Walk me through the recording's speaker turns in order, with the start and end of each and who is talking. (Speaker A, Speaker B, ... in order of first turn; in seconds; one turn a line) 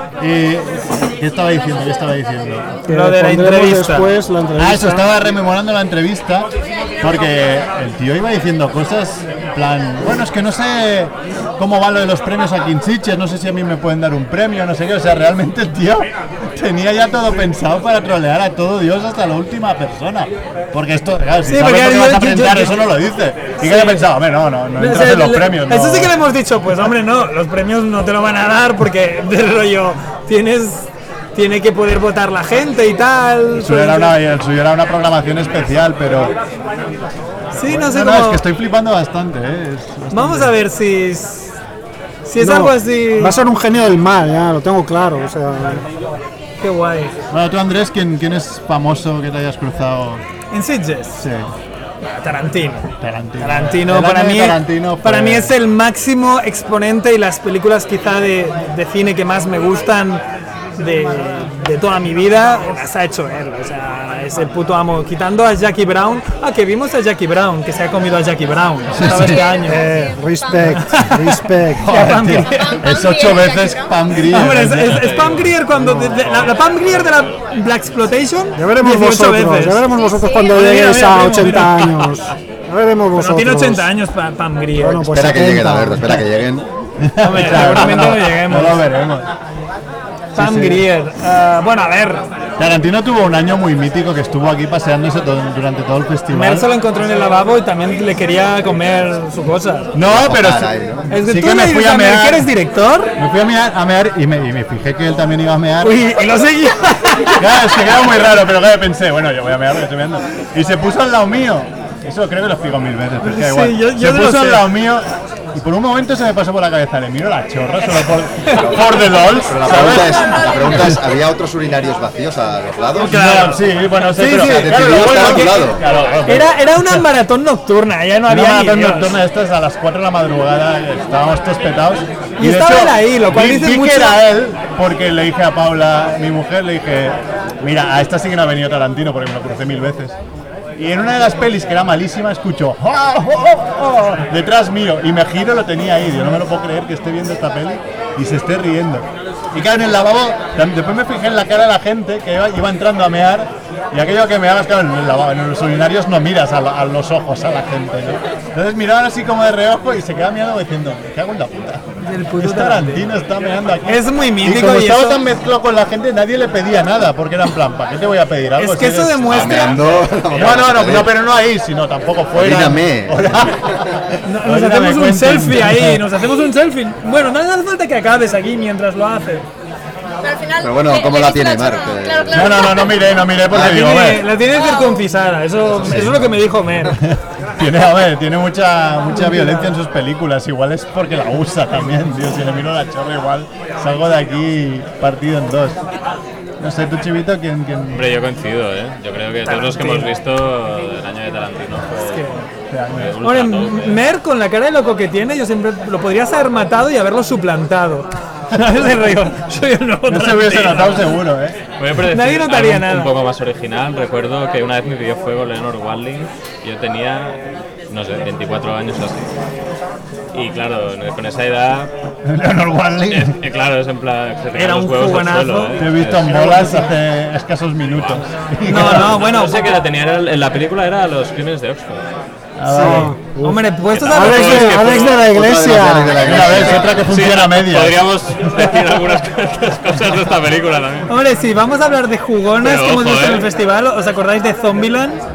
Speaker A: 0.2-2.8
Speaker B: 2.9-5.1
Speaker C: 2.9-4.1
Speaker A: 4.5-26.1
Speaker C: 21.4-22.8
Speaker C: 23.6-24.1
Speaker C: 24.8-34.1
Speaker A: 33.5-36.3
Speaker A: 37.5-40.5
Speaker C: 37.5-38.4
Speaker C: 40.1-41.6
Speaker C: 42.2-43.4
Speaker B: 42.4-45.8
Speaker C: 46.6-47.1
Speaker A: 47.3-50.2
Speaker C: 50.5-51.2
Speaker A: 51.2-51.5
Speaker C: 52.2-60.2
Speaker A: 53.0-55.5
Speaker C: 60.8-69.8
Speaker A: 68.9-69.3
Speaker D: 69.1-70.8
Speaker B: 69.7-72.4
Speaker C: 70.9-71.2
Speaker C: 71.8-72.8
Speaker A: 71.8-75.2
Speaker D: 72.4-74.1
Speaker C: 74.3-79.8
Speaker E: 74.7-75.5
Speaker B: 78.5-83.9
Speaker D: 79.9-80.8
Speaker C: 80.5-82.0
Speaker C: 83.1-85.1
Speaker B: 84.8-86.2
Speaker F: 85.0-86.7
Speaker A: 87.0-89.3
Speaker C: 87.2-88.8
Speaker C: 90.3-92.2
Speaker A: 90.3-90.8
Speaker A: 92.6-96.7
Speaker C: 96.3-99.9
Speaker A: 99.9-102.5
Speaker F: 100.0-101.1
Speaker C: 101.1-103.1
Speaker A: 103.2-106.1
Speaker C: 105.8-107.8
Speaker A: 107.3-121.0
Speaker C: 113.2-114.7
Speaker F: 118.6-123.2
Speaker D: 120.2-120.8
Speaker C: 123.0-125.6
Speaker A: 123.1-127.0
Speaker F: 124.3-125.8
Speaker C: 126.2-129.2
Speaker A: 128.2-140.2
Speaker C: 132.4-134.2
Speaker A: 140.8-161.8
Speaker C: 162.0-163.1
Speaker A: 162.4-176.0
Speaker C: 163.9-165.2
Speaker C: 168.6-169.8
Speaker F: 169.3-171.1
Speaker F: 172.3-173.7
Speaker C: 174.2-179.5
Speaker D: 180.2-183.0
Speaker F: 180.6-182.7
Speaker A: 182.3-184.2
Speaker C: 183.5-187.0
Speaker D: 184.5-185.1
Speaker A: 185.8-186.3
Speaker A: 186.8-195.8
Speaker C: 189.1-189.7
Speaker A: 196.6-198.0
Speaker E: 197.9-202.3
Speaker C: 199.4-200.1
Speaker C: 202.0-202.5
Speaker A: 202.7-203.2
Speaker E: 202.9-204.0
Speaker C: 203.2-211.1
Speaker A: 210.1-211.6
Speaker E: 211.8-219.3
Speaker C: 212.1-213.1
Speaker E: 220.3-221.9
Speaker A: 222.2-223.4
Speaker E: 223.1-226.6
Speaker C: 224.5-225.8
Speaker A: 225.8-229.2
Speaker C: 226.4-226.8
Speaker E: 227.9-228.2
Speaker C: 228.6-229.7
Speaker E: 228.8-232.0
Speaker A: 232.6-233.1
Speaker B: 232.7-236.2
Speaker C: 233.4-235.1
Speaker E: 233.9-235.2
Speaker F: 235.2-237.0
Speaker A: 236.2-238.9
Speaker E: 236.8-241.1
Speaker C: 241.1-245.2
Speaker E: 242.6-243.4